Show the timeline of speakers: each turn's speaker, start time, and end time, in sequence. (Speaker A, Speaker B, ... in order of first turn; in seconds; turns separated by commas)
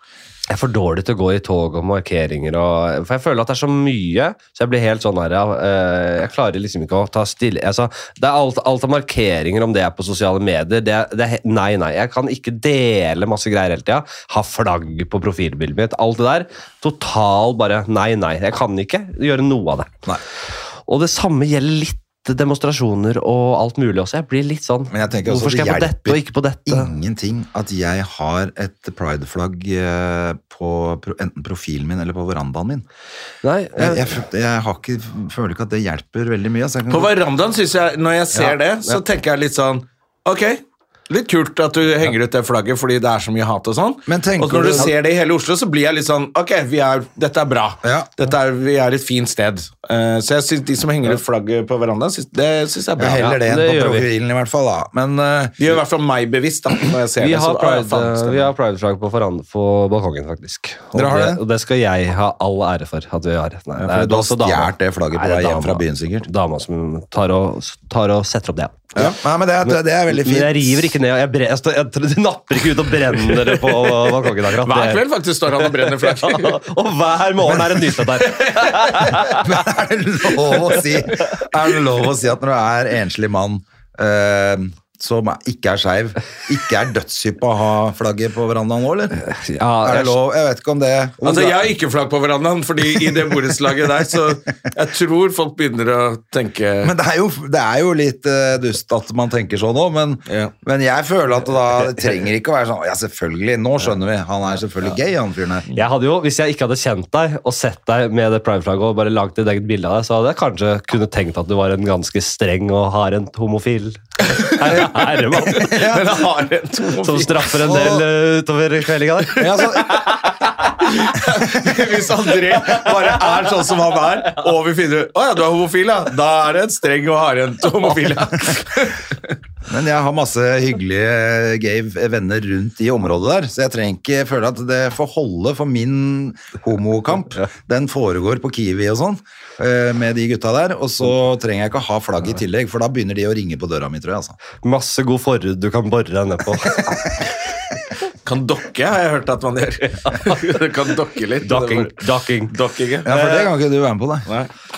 Speaker A: 0.5-19.9, Speaker A: 20.9-26.9, Speaker B: 24.9-32.8, Speaker A: 33.4-34.2, Speaker B: 33.8-37.1, Speaker C: 36.9-53.3, Speaker B: 44.1-44.9, Speaker B: 47.8-48.1, Speaker B: 53.0-55.8, Speaker A: 53.2-54.1, Speaker C: 55.6-58.5, Speaker A: 57.2-68.9, Speaker B: 60.9-61.4, Speaker B: 63.8-66.3, Speaker B: 68.9-70.9, Speaker A: 69.6-75.0, Speaker C: 74.6-76.6, Speaker A: 75.6-79.5, Speaker C: 78.2-79.1, Speaker B: 79.3-89.2, Speaker A: 89.2-90.2, Speaker B: 89.8-91.7, Speaker C: 91.2-96.9, Speaker B: 96.8-105.7, Speaker C: 100.3-100.5, Speaker A: 105.7-115.9, Speaker C: 114.3-114.9, Speaker B: 115.6-116.1, Speaker C: 115.6-117.9, Speaker A: 117.0-120.9, Speaker B: 117.7-118.0, Speaker B: 119.4-120.0, Speaker C: 119.4-120.0, Speaker C: 120.6-129.3, Speaker B: 129.7-144.4, Speaker A: 144.6-147.1, Speaker C: 148.2-153.2, Speaker A: 151.4-152.5, Speaker B: 153.0-154.3